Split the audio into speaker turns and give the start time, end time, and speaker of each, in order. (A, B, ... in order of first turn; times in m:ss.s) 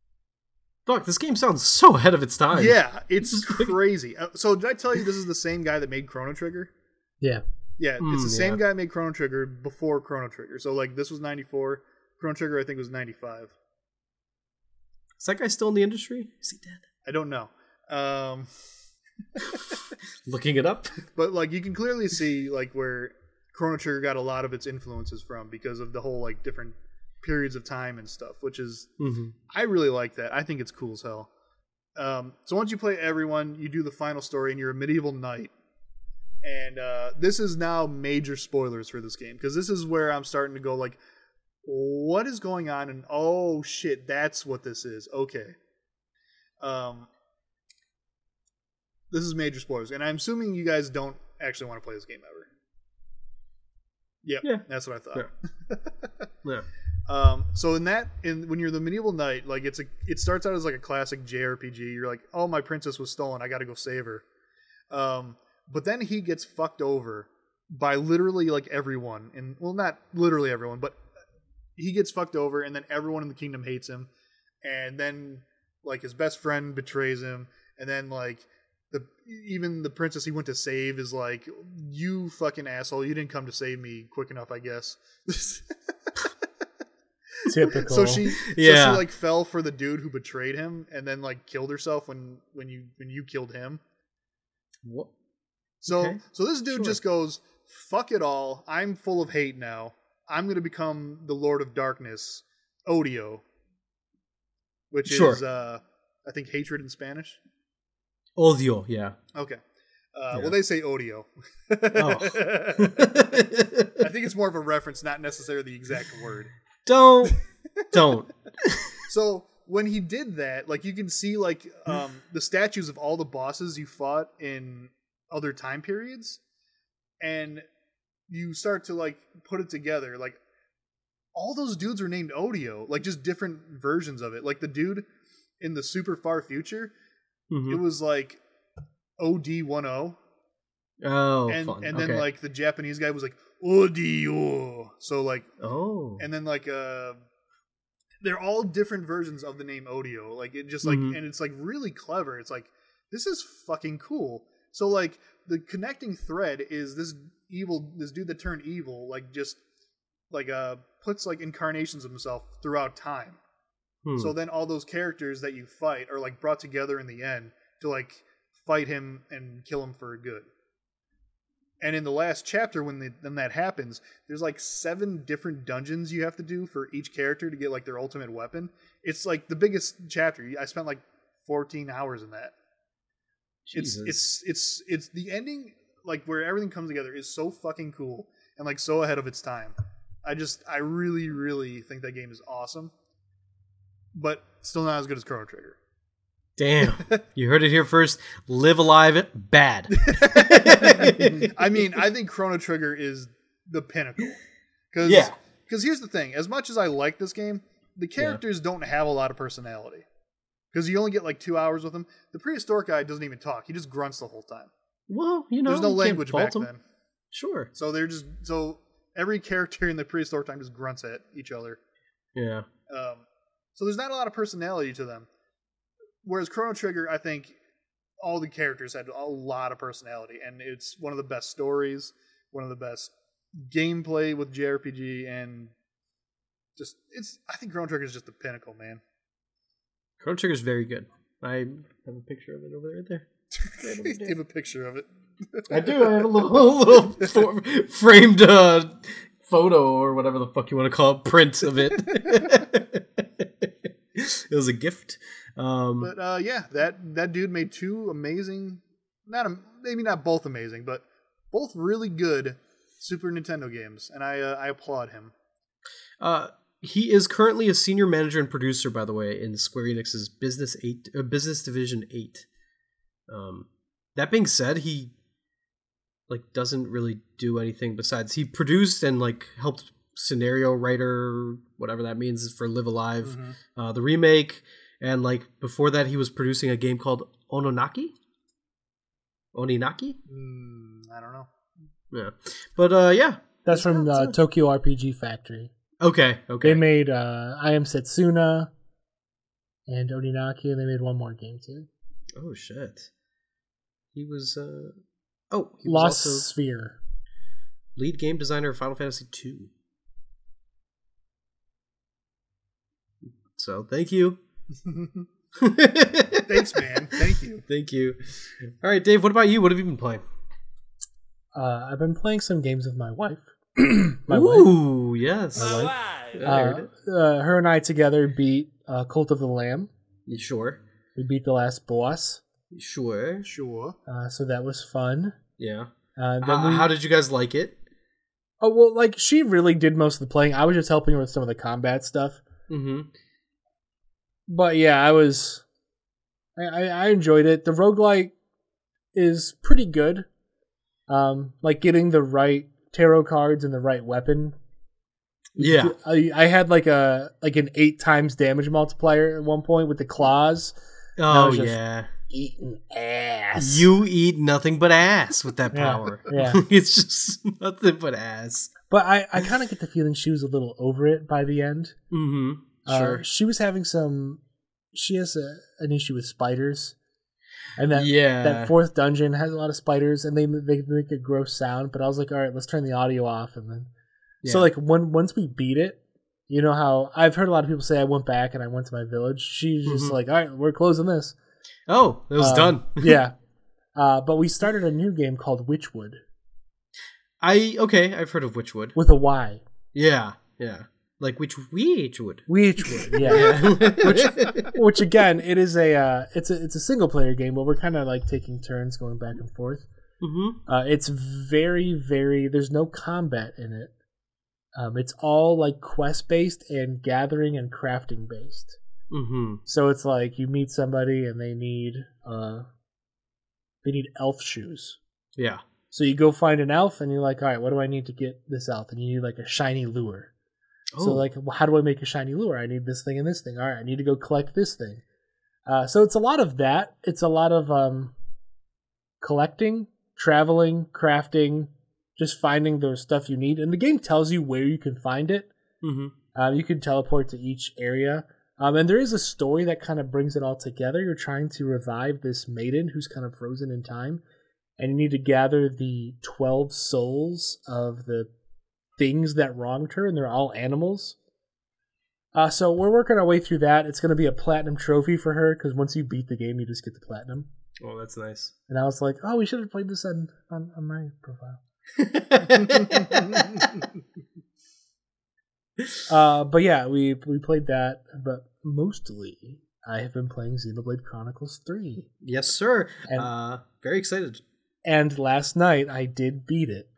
0:00.8-0:03.7 A
0:02.5-0:06.7 B
0:07.8-0:13.5 B
0:08.0-0:08.6 A
0:15.2-0:16.8 A
0:17.0-0:18.5 B
0:20.2-0:21.0 A
0:21.2-0:28.9 B
0:29.0-0:29.3 A
0:29.5-0:31.3 B
0:32.0-0:35.5 B
0:36.4-0:41.0 B
0:41.6-0:45.6 B
0:46.6-0:47.1 B
0:49.1-0:52.5 B
0:54.2-0:56.3 B
0:54.4-0:55.3 A
0:57.1-1:04.2 B
1:04.9-1:11.0 B
1:11.8-1:14.1 B
1:14.6-1:25.7 B
1:27.5-1:28.2 C
1:27.6-1:33.8 B
1:28.3-1:29.0 A
1:34.8-1:35.1 A
1:35.8-1:43.4 B
1:35.9-1:37.0 A
1:44.9-1:47.4 B
1:45.1-1:45.4 A
1:48.4-1:49.2 A
1:49.3-1:49.6 B
1:50.1-1:53.3 B
1:51.9-1:54.0 A
1:54.0-1:56.5 B
1:56.8-1:57.4 A
1:57.9-1:59.0 A
1:59.1-2:06.4 B
2:07.2-2:07.6 B
2:08.3-2:10.4 B
2:11.3-2:15.0 B
2:15.6-2:16.9 B
2:17.5-2:17.8 A
2:17.7-2:18.4 B
2:19.2-2:20.2 B
2:21.0-2:22.3 A
2:21.5-2:25.5 B
2:25.6-2:26.2 A
2:26.2-2:27.2 B
2:28.2-2:39.6 B
2:30.8-2:31.2 A
2:40.3-2:43.4 B
2:44.0-2:44.3 A
2:44.2-2:50.5 B
2:51.8-3:02.5 B
3:03.6-3:04.3 A
3:03.7-3:12.9 B
3:14.1-3:15.8 B
3:16.6-3:21.9 A
3:20.0-3:24.4 B
3:24.9-3:30.0 B
3:25.0-3:25.3 A
3:30.7-3:34.7 B
3:35.1-3:36.7 A
3:35.6-3:36.8 B
3:37.3-3:37.7 A
3:37.7-3:41.8 B
3:42.3-3:42.7 A
3:42.9-3:43.2 B
3:43.8-3:45.3 B
3:46.2-3:47.6 B
3:48.2-3:55.7 B
3:56.8-3:59.0 B
4:00.2-4:04.4 A
4:03.5-4:06.2 B
4:05.7-4:16.1 A
4:16.0-4:25.3 B
4:26.2-4:32.5 A
4:33.3-4:35.1 A
4:36.3-4:48.1 A
4:43.2-4:43.6 B
4:49.5-4:50.2 A
4:50.3-4:51.5 B
4:52.1-4:54.4 A
4:53.6-4:55.7 C
4:56.0-4:56.8 A
4:56.6-4:58.7 C
4:59.9-5:01.9 C
5:02.3-5:03.1 A
5:04.1-5:05.0 A
5:05.5-5:06.4 A
5:05.8-5:07.0 C
5:08.0-5:09.7 A
5:13.5-5:14.4 A
5:14.8-5:15.3 B
5:15.6-5:16.8 A
5:16.5-5:17.6 B
5:17.6-5:20.2 A
5:21.5-5:24.7 C
5:24.3-5:26.9 A
5:25.6-5:25.9 C
5:26.4-5:29.9 C
5:30.3-5:30.8 A
5:31.2-5:32.4 C
5:32.7-5:33.5 A
5:33.4-5:34.0 B
5:34.1-5:35.4 C
5:35.6-5:37.8 A
5:36.2-5:36.9 C
5:38.6-5:42.4 C
5:42.7-5:43.1 A
5:44.5-5:45.6 C
5:46.6-5:48.3 C
5:49.1-5:50.3 C
5:51.1-5:54.6 C
5:55.5-6:00.7 C
5:55.6-5:55.9 A
6:01.2-6:02.1 A
6:01.3-6:03.8 C
6:03.6-6:08.7 A
6:05.7-6:06.6 C
6:08.9-6:12.0 C
6:12.1-6:13.2 A
6:12.9-6:14.4 C
6:14.9-6:17.0 C
6:17.8-6:23.9 C
6:17.9-6:18.7 A
6:24.4-6:24.7 A
6:24.4-6:31.4 C
6:29.8-6:30.2 A
6:31.9-6:33.2 A
6:32.4-6:33.3 C
6:33.9-6:36.2 C
6:37.4-6:39.0 A
6:38.9-6:39.6 C
6:39.9-6:44.7 A
6:42.5-6:49.9 C
6:50.2-6:50.6 A
6:50.7-6:53.9 C
6:54.7-6:58.8 C
6:59.1-6:59.6 A
6:59.6-7:02.7 C
7:03.8-7:05.0 C
7:05.4-7:05.6 A
7:05.9-7:10.3 C
7:10.9-7:11.2 A
7:11.0-7:15.0 C
7:15.6-7:18.1 C
7:19.2-7:25.5 C
7:25.8-7:26.1 A
7:26.3-7:34.2 C
7:34.8-7:38.3 C
7:39.0-7:41.2 C
7:42.3-7:47.5 C
7:47.8-7:48.5 A
7:48.7-7:51.6 C
7:52.0-7:53.8 A
7:52.9-7:53.4 B
7:56.1-8:02.1 C
8:02.2-8:04.4 A
8:04.8-8:06.9 C